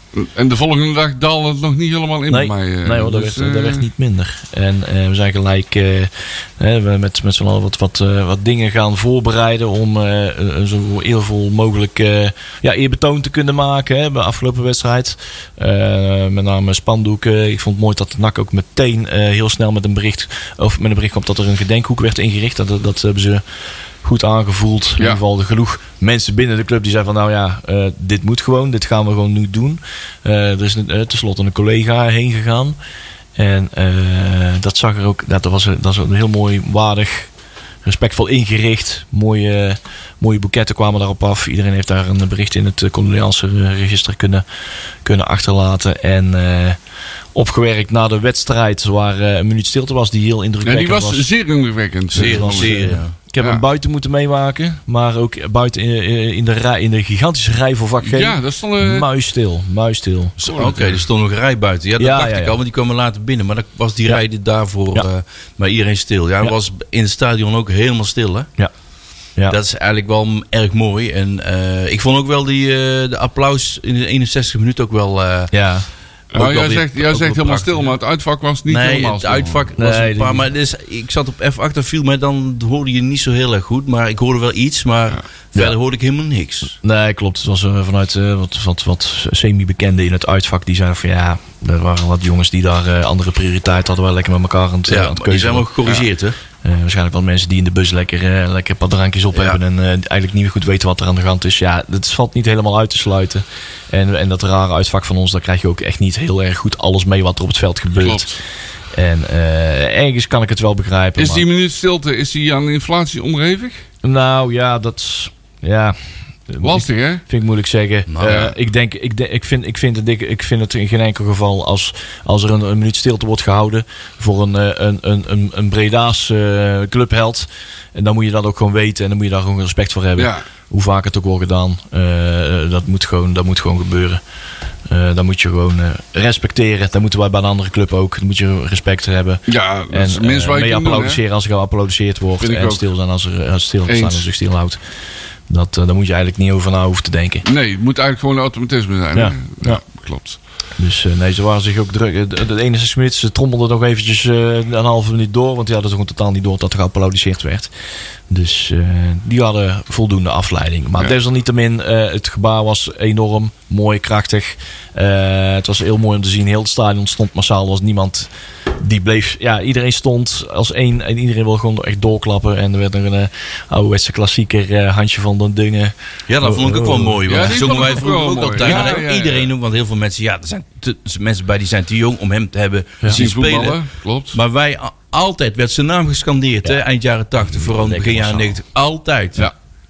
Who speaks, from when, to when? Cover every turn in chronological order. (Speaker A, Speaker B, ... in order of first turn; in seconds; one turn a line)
Speaker A: 0.1-3.9
Speaker B: 2.3-23.4
Speaker B: 24.0-32.8
Speaker B: 33.4-37.3
Speaker B: 37.8-44.4
Speaker B: 45.0-46.8
Speaker B: 47.4-51.3
Speaker A: 50.6-53.6
Speaker C: 52.1-53.1
Speaker B: 52.1-60.4
Speaker A: 58.0-59.1
Speaker C: 60.4-68.5
Speaker A: 60.4-61.0
Speaker B: 62.0-62.6
Speaker C: 69.5-75.5
Speaker B: 75.5-75.9
Speaker C: 76.3-77.9
Speaker A: 76.3-79.7
Speaker C: 78.7-86.8
Speaker B: 79.8-80.5
Speaker B: 86.8-96.0
Speaker C: 94.9-96.4
Speaker B: 96.6-108.4
Speaker C: 99.3-99.6
Speaker A: 108.0-108.4
Speaker B: 108.9-111.5
Speaker A: 111.2-113.8
Speaker B: 114.0-116.0
Speaker B: 116.5-134.2
Speaker A: 116.6-117.2
Speaker C: 118.1-118.5
Speaker A: 118.2-118.5
Speaker A: 130.2-130.4
Speaker B: 134.9-144.8
Speaker A: 139.5-141.2
Speaker A: 142.4-142.8
Speaker A: 143.9-144.2
Speaker B: 145.5-147.4
Speaker A: 147.4-150.4
Speaker B: 149.2-149.8
Speaker B: 150.8-157.7
Speaker B: 158.3-177.9
Speaker C: 176.3-183.8
Speaker A: 177.3-179.5
Speaker A: 183.1-184.4
Speaker C: 184.3-189.5
Speaker B: 187.7-188.6